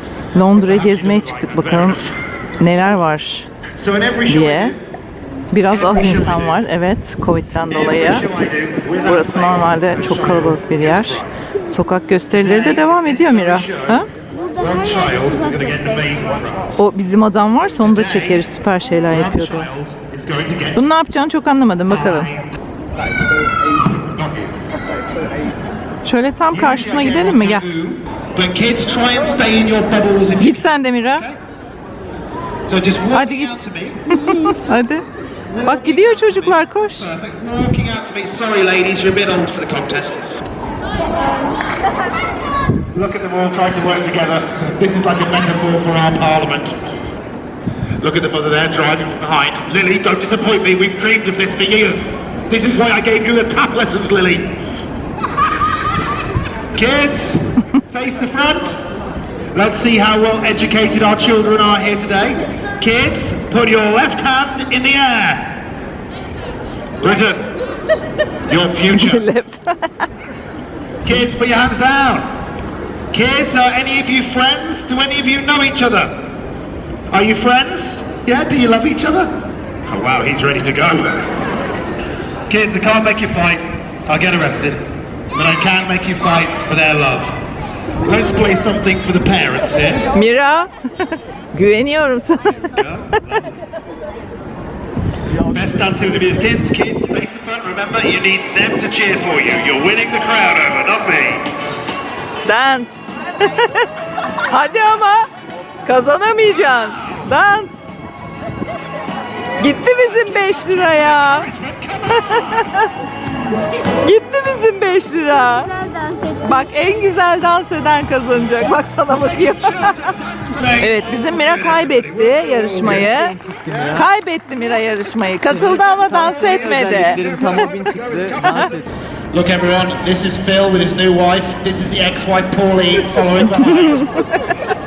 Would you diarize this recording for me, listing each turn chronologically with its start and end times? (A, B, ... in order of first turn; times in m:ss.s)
0:00.3-0:02.0 A
0:00.7-0:02.0 B
0:02.6-0:03.5 A
0:03.8-0:04.8 B
0:04.3-0:04.7 A
0:05.5-0:08.2 A
0:05.7-0:06.6 B
0:07.7-0:11.3 B
0:09.0-0:14.1 A
0:12.4-0:14.0 B
0:14.3-0:16.5 C
0:14.6-0:16.7 B
0:16.8-0:19.7 A
0:17.8-0:18.5 B
0:19.1-0:20.8 B
0:20.7-0:22.3 A
0:21.9-0:22.4 B
0:24.0-0:24.6 B
0:26.0-0:27.6 A
0:26.5-0:30.6 B
0:30.4-0:31.2 A
0:32.6-0:34.1 B
0:33.1-0:35.0 A
0:34.1-0:34.6 C
0:35.5-0:40.2 B
0:35.6-0:37.1 A
0:42.9-0:46.8 B
0:48.0-0:54.6 B
0:56.7-0:58.8 B
0:59.5-1:05.6 B
1:07.0-1:07.5 B
1:08.5-1:09.3 B
1:08.9-1:10.1 A
1:11.0-1:12.3 B
1:13.1-1:16.2 B
1:17.1-1:21.3 B
1:22.5-1:27.4 B
1:28.0-1:30.1 B
1:30.1-1:33.4 A
1:35.5-1:41.5 B
1:42.4-1:45.3 A
1:45.8-1:47.9 A
1:49.6-1:51.5 A
1:51.2-1:52.6 B
1:52.1-1:52.9 A
1:54.0-1:55.7 A
1:55.3-1:56.9 C
1:56.4-2:00.1 A
2:00.4-2:02.3 B
2:00.8-2:08.8 A
2:08.4-2:08.7 B
2:09.3-2:14.4 B